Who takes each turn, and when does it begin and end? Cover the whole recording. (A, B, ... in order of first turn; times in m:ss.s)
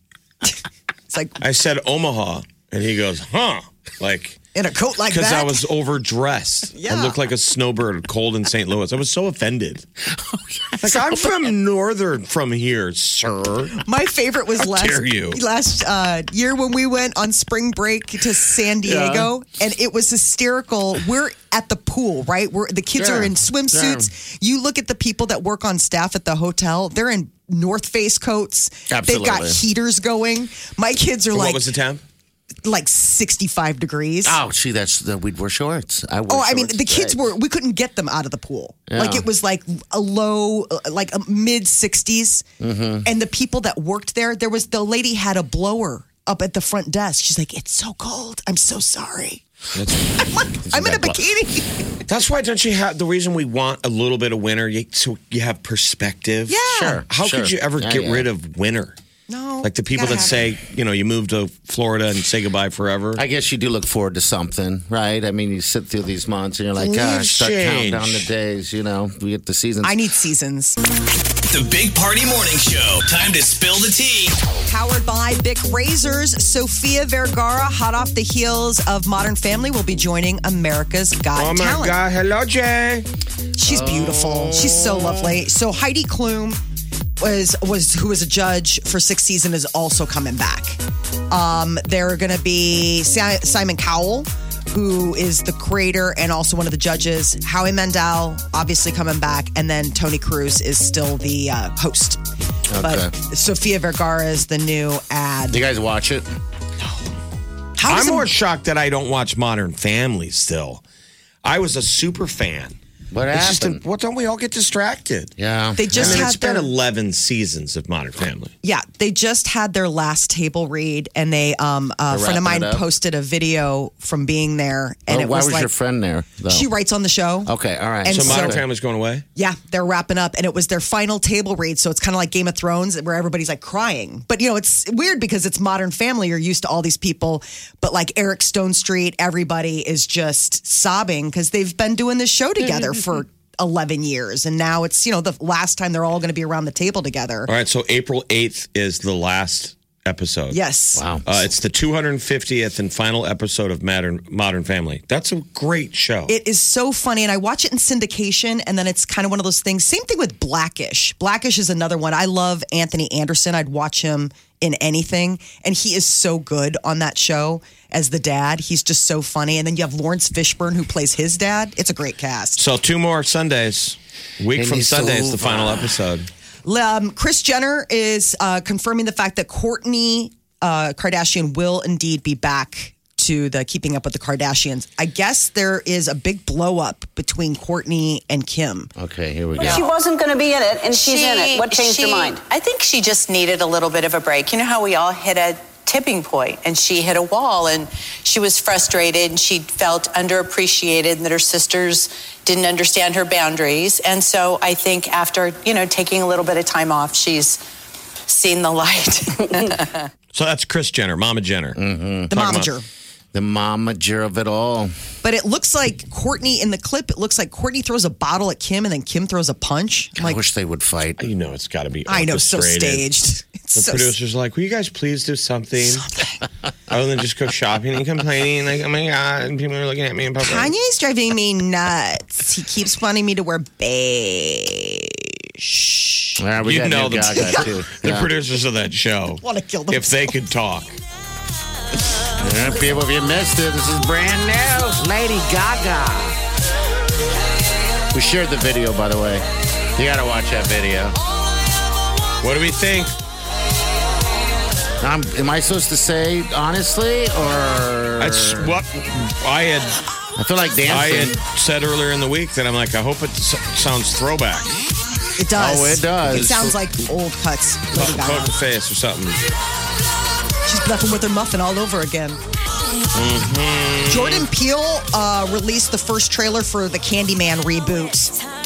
0:01.1-0:01.4 A
0:01.4-0:04.4 B
0:04.5-0:05.6 A
0:05.1-0:09.8 B
0:06.7-0:07.2 A
0:10.0-0:11.3 C
0:10.8-0:13.7 B
0:13.8-0:31.6 A
0:14.6-0:15.4 B
0:18.8-0:19.3 C
0:23.0-0:24.1 C
0:28.9-0:29.6 C
0:31.3-0:32.0 B
0:32.6-0:34.4 A
0:34.2-0:37.2 C
0:36.3-0:42.4 A
0:38.9-0:39.2 C
0:42.6-0:43.1 C
0:43.0-0:49.4 A
0:49.7-0:50.0 B
0:50.2-0:51.7 A
0:50.6-0:51.2 C
0:52.1-0:59.0 B
0:56.5-0:57.0 A
0:56.6-0:58.3 C
0:59.3-1:00.4 A
0:59.6-1:03.2 B
1:03.2-1:10.0 C
1:06.8-1:08.3 B
1:09.8-1:10.8 A
1:11.5-1:14.4 D
1:14.7-1:22.0 A
1:21.3-1:23.1 B
1:23.6-1:26.6 A
1:23.6-1:25.4 C
1:27.2-1:30.8 A
1:31.3-1:42.2 A
1:42.7-1:43.1 C
1:42.8-1:45.6 A
1:45.5-1:46.3 C
1:47.8-1:48.3 A
1:47.9-1:50.8 B
1:51.4-1:52.8 B
1:53.1-1:53.8 C
1:53.3-1:55.3 B
1:55.4-1:56.3 C
1:55.8-1:56.7 A
1:55.9-1:58.5 B
1:58.6-2:05.7 A
2:02.1-2:02.8 C
2:05.1-2:06.7 C
2:06.5-2:07.5 A
2:07.4-2:08.6 C
2:08.0-2:08.6 A
2:08.1-2:09.2 B
2:09.4-2:27.5 A
2:27.5-2:30.6 B
2:30.5-2:31.0 A
2:31.0-2:31.4 C
2:31.2-2:36.3 B
2:36.3-2:52.6 A
2:52.6-2:56.3 B
2:54.5-2:55.9 C
2:56.6-3:08.9 A
3:09.0-3:09.8 C
3:09.6-3:12.4 E
3:09.6-3:09.9 F
3:10.9-3:27.6 F
3:28.3-3:30.1 F
3:30.3-3:31.8 B
3:31.7-3:32.3 C
3:32.3-3:32.7 B
3:32.3-3:32.8 A
3:33.3-3:34.9 C
3:35.2-3:40.4 A
3:40.2-3:41.3 C
3:41.2-3:43.1 B
3:42.1-3:44.1 A
3:43.7-3:46.1 B
3:45.9-3:46.4 A
3:46.9-3:50.7 B
3:50.4-3:56.4 A
3:56.4-3:58.3 C
3:56.6-4:01.0 B
3:57.4-3:57.7 A
3:59.4-4:00.3 A
4:02.4-4:06.4 C
4:08.1-4:09.4 C
4:10.0-4:11.2 C
4:12.4-4:13.2 B
4:15.0-4:18.8 C
4:18.2-4:20.0 B
4:20.4-4:21.4 C
4:20.8-4:24.7 B
4:25.4-4:28.5 A
4:25.5-4:26.7 C
4:27.9-4:29.4 B
4:30.6-4:32.4 A
4:33.1-4:34.4 B
4:34.1-4:38.3 A